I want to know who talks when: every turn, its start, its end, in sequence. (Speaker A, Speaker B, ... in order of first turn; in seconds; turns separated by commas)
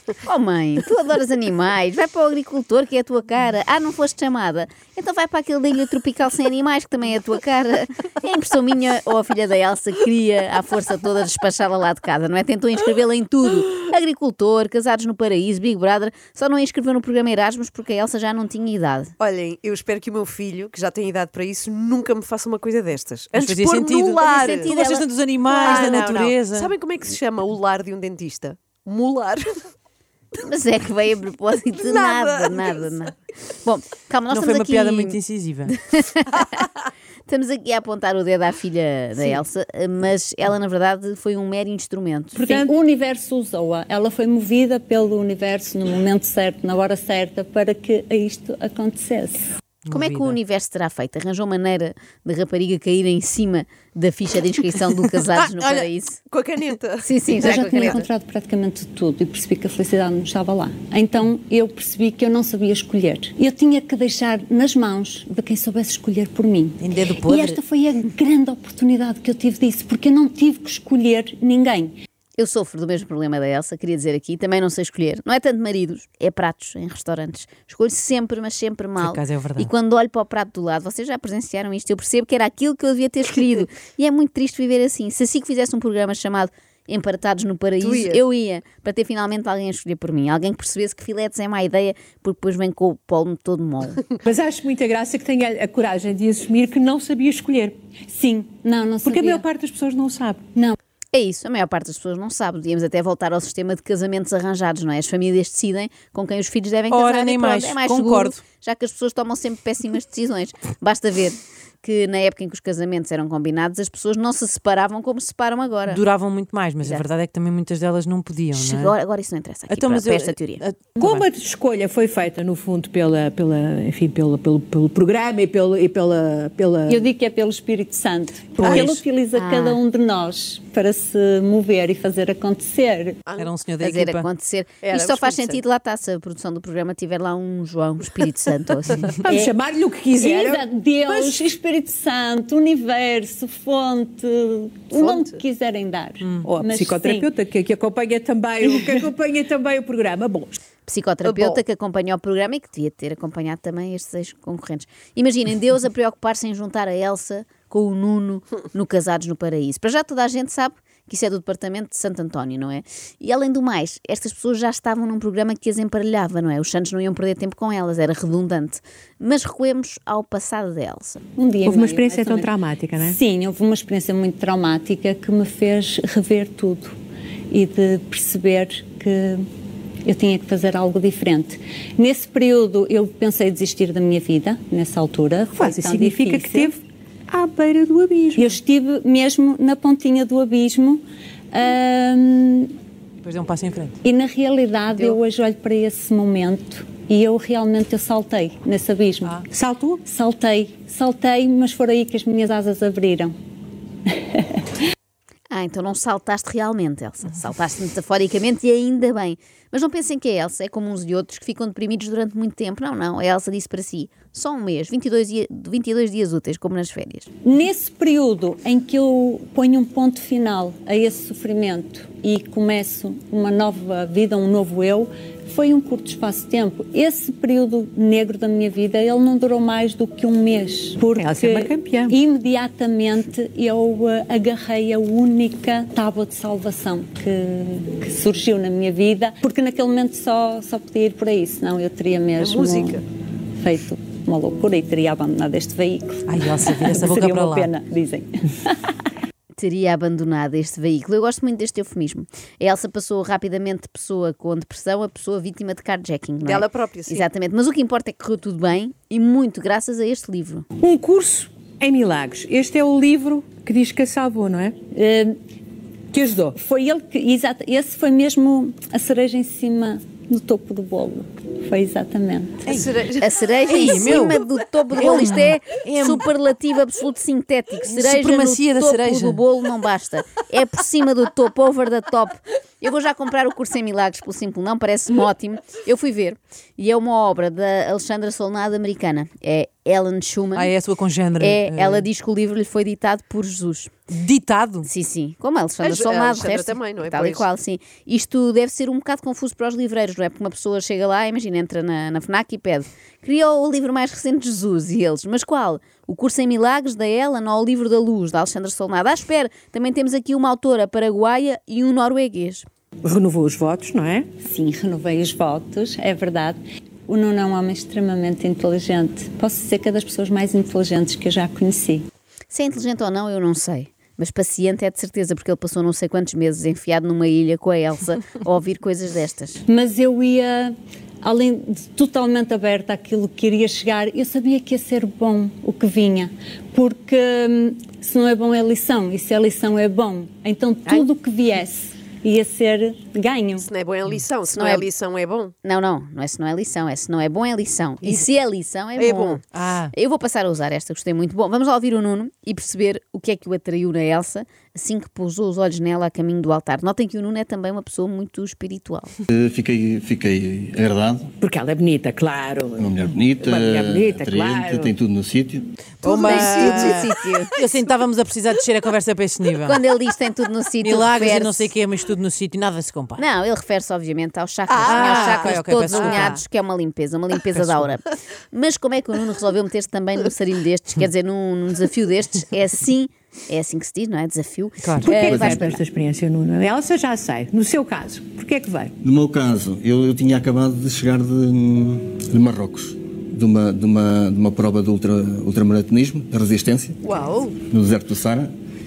Speaker A: 0.2-19.1, Speaker B: 19.2-24.8, Speaker C: 23.3-26.7, Speaker A: 24.2-25.1, Speaker B: 25.4-29.7, Speaker A: 30.4-35.2, Speaker B: 31.7-33.1, Speaker C: 34.3-35.7, Speaker A: 35.8-36.4, Speaker A: 37.3-42.4, Speaker D: 42.3-42.7, Speaker E: 42.5-49.4, Speaker C: 49.9-50.4, Speaker A: 49.9-56.2, Speaker B: 55.2-58.0, Speaker A: 57.0-58.0, Speaker E: 57.4-71.9, Speaker C: 66.8-67.6, Speaker A: 72.4-94.0, Speaker C: 79.0-79.7, Speaker B: 87.8-88.2, Speaker D: 94.2-97.8, Speaker E: 98.1-99.4, Speaker D: 99.0-100.4, Speaker A: 101.1-116.0, Speaker C: 106.9-108.4, Speaker C: 115.9-118.9, Speaker A: 118.5-120.6, Speaker C: 119.7-121.2, Speaker D: 121.0-127.0, Speaker E: 126.9-133.2, Speaker B: 128.6-128.9, Speaker A: 129.3-129.8, Speaker B: 133.3-133.5, Speaker C: 133.4-134.3, Speaker A: 133.8-139.2, Speaker B: 134.8-135.6, Speaker D: 139.1-141.4, Speaker E: 139.2-139.5, Speaker E: 140.2-147.3, Speaker B: 144.9-145.3, Speaker D: 146.4-150.6, Speaker A: 150.8-171.2, Speaker B: 151.2-151.6, Speaker E: 171.3-176.9, Speaker D: 171.6-173.2, Speaker E: 177.5-179.4, Speaker E: 180.0-186.7, Speaker D: 185.5-188.5, Speaker E: 188.3-192.7, Speaker C: 193.2-193.9, Speaker E: 194.0-199.4, Speaker D: 199.5-200.0, Speaker E: 200.0-203.3, Speaker E: 204.3-204.6, Speaker A: 205.5-217.3, Speaker E: 217.4-243.0, Speaker D: 231.1-232.2, Speaker B: 242.4-243.0, Speaker E: 243.6-248.8, Speaker C: 246.3-247.7, Speaker A: 249.6-260.6, Speaker B: 256.4-257.3, Speaker D: 260.8-264.8, Speaker E: 264.9-265.4, Speaker D: 266.1-266.6, Speaker E: 266.6-272.6, Speaker B: 272.7-273.3, Speaker A: 273.2-290.7, Speaker C: 273.7-276.2, Speaker B: 274.1-274.3, Speaker C: 277.9-279.4, Speaker C: 290.5-292.1, Speaker A: 291.4-293.9, Speaker C: 294.1-294.9, Speaker A: 294.8-312.7, Speaker B: 295.8-297.5, Speaker D: 313.0-314.3, Speaker E: 314.4-322.0, Speaker A: 322.5-329.6, Speaker E: 329.6-343.7, Speaker B: 343.6-345.6, Speaker A: 344.5-344.9, Speaker A: 345.6-349.4, Speaker B: 348.9-349.4, Speaker C: 349.5-349.9, Speaker A: 349.9-359.2, Speaker F: 359.3-361.3, Speaker D: 361.4-364.9, Speaker F: 362.8-365.7, Speaker C: 366.0-369.8, Speaker B: 366.0-367.5, Speaker A: 366.1-367.5, Speaker A: 369.6-371.7, Speaker C: 370.8-373.2, Speaker A: 373.2-385.8, Speaker B: 374.7-376.4, Speaker C: 374.8-376.4, Speaker C: 377.6-377.8, Speaker C: 384.8-385.2, Speaker D: 385.0-388.9, Speaker F: 385.1-385.7, Speaker F: 389.0-397.0, Speaker B: 397.0-397.6, Speaker F: 397.6-398.5